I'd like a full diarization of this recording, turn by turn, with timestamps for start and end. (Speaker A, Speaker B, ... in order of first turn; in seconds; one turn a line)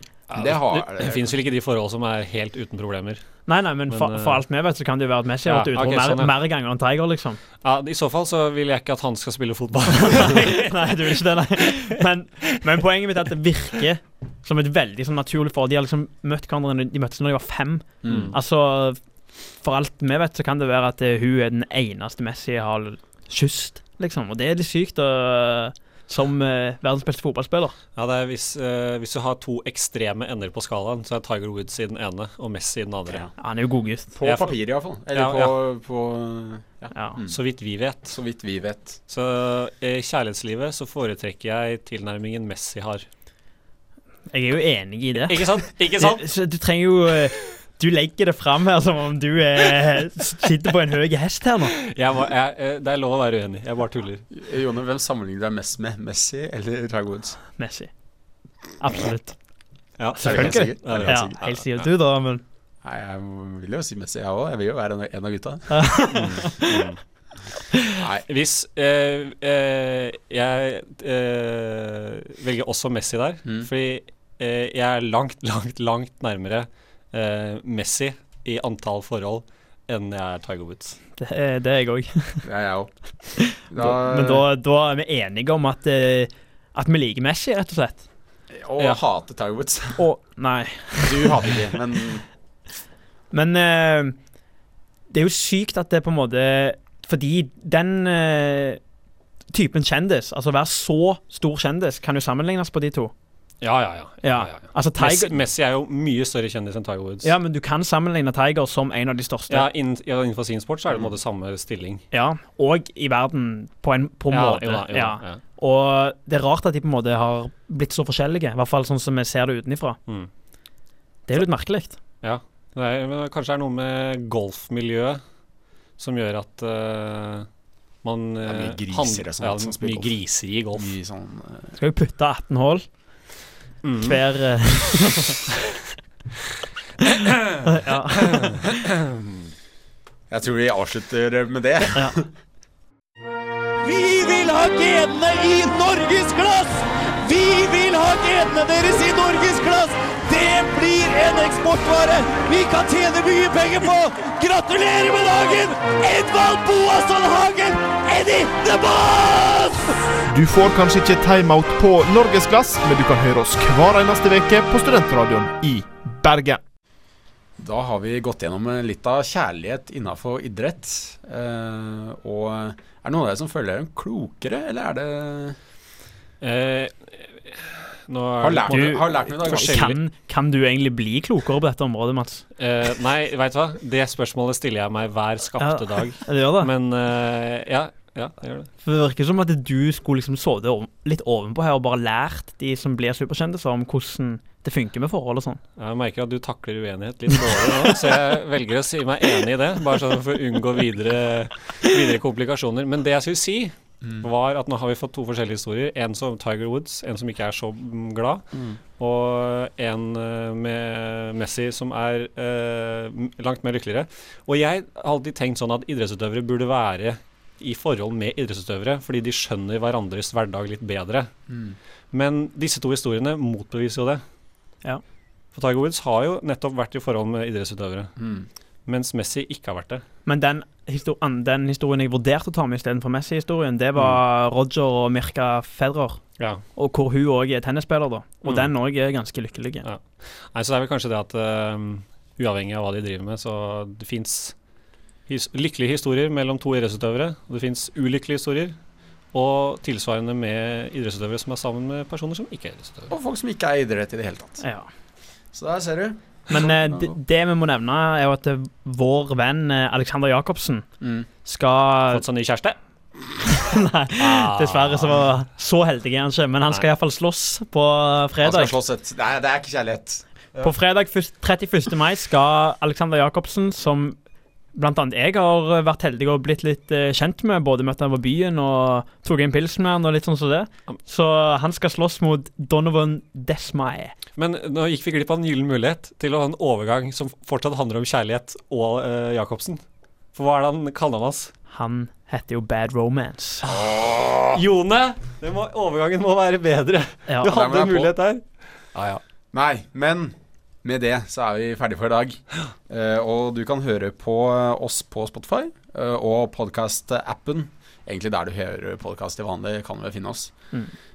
Speaker A: 0.3-4.4
Speaker B: 0.3-1.4
Speaker C: 3.5-7.4
Speaker A: 5.5-6.3
Speaker A: 7.6-11.0
Speaker C: 10.0-19.0
Speaker B: 18.0-18.3
Speaker A: 18.1-18.4
Speaker C: 19.6-27.8
Speaker A: 28.0-33.3
Speaker C: 33.4-34.1
Speaker B: 34.2-37.4
Speaker A: 34.2-34.6
Speaker A: 35.1-35.5
Speaker A: 37.3-38.2
Speaker B: 38.1-39.0
Speaker A: 39.1-43.0
Speaker C: 44.3-51.8
Speaker A: 45.3-46.2
Speaker A: 51.9-54.2
Speaker B: 54.3-57.4
Speaker C: 57.6-57.9
Speaker C: 58.8-59.4
Speaker A: 60.0-61.9
Speaker C: 60.2-62.4
Speaker B: 60.2-61.4
Speaker B: 62.8-66.1
Speaker C: 65.7-66.7
Speaker A: 66.1-67.0
Speaker B: 68.0-68.3
Speaker A: 68.3-81.0
Speaker C: 81.2-82.4
Speaker B: 82.4-84.5
Speaker C: 83.5-88.0
Speaker B: 88.5-90.0
Speaker C: 90.0-91.3
Speaker B: 91.0-92.3
Speaker C: 93.3-94.2
Speaker C: 95.1-98.8
Speaker C: 99.5-103.1
Speaker A: 103.6-107.3
Speaker C: 104.2-105.4
Speaker C: 107.2-109.7
Speaker A: 109.5-112.0
Speaker C: 112.1-120.0
Speaker A: 114.3-115.4
Speaker C: 121.3-122.0
Speaker A: 122.2-125.2
Speaker A: 126.0-127.5
Speaker A: 128.0-130.9
Speaker B: 128.4-130.1
Speaker B: 130.7-131.8
Speaker C: 131.8-133.3
Speaker A: 133.8-134.2
Speaker C: 134.0-135.4
Speaker C: 137.7-138.6
Speaker A: 137.9-138.9
Speaker B: 140.3-142.3
Speaker D: 143.8-159.8
Speaker E: 160.3-166.6
Speaker B: 167.6-175.6
Speaker A: 176.4-180.0
Speaker B: 178.4-179.8
Speaker C: 178.7-182.4
Speaker A: 182.6-188.7
Speaker C: 185.6-186.7
Speaker C: 188.8-195.6
Speaker A: 195.8-221.3
Speaker B: 204.0-204.3
Speaker B: 221.5-221.8
Speaker A: 222.1-224.2
Speaker A: 225.5-228.2
Speaker B: 228.2-228.5
Speaker A: 228.9-230.0
Speaker C: 230.3-236.2
Speaker A: 236.4-236.6
Speaker C: 236.8-239.9
Speaker A: 238.4-238.7
Speaker A: 239.8-244.6
Speaker A: 245.3-248.8
Speaker A: 249.3-253.1
Speaker B: 253.1-254.6
Speaker C: 254.6-254.9
Speaker B: 255.5-257.2
Speaker C: 256.5-260.9
Speaker B: 261.0-261.3
Speaker C: 261.4-262.2
Speaker A: 262.1-262.8
Speaker C: 263.5-268.8
Speaker A: 264.2-265.2
Speaker B: 268.4-270.2
Speaker C: 270.6-274.2
Speaker C: 274.8-284.1
Speaker A: 284.4-289.8
Speaker A: 290.3-291.5
Speaker C: 291.7-293.7
Speaker B: 293.6-294.6
Speaker A: 294.5-298.9
Speaker B: 297.5-298.1
Speaker B: 298.9-310.5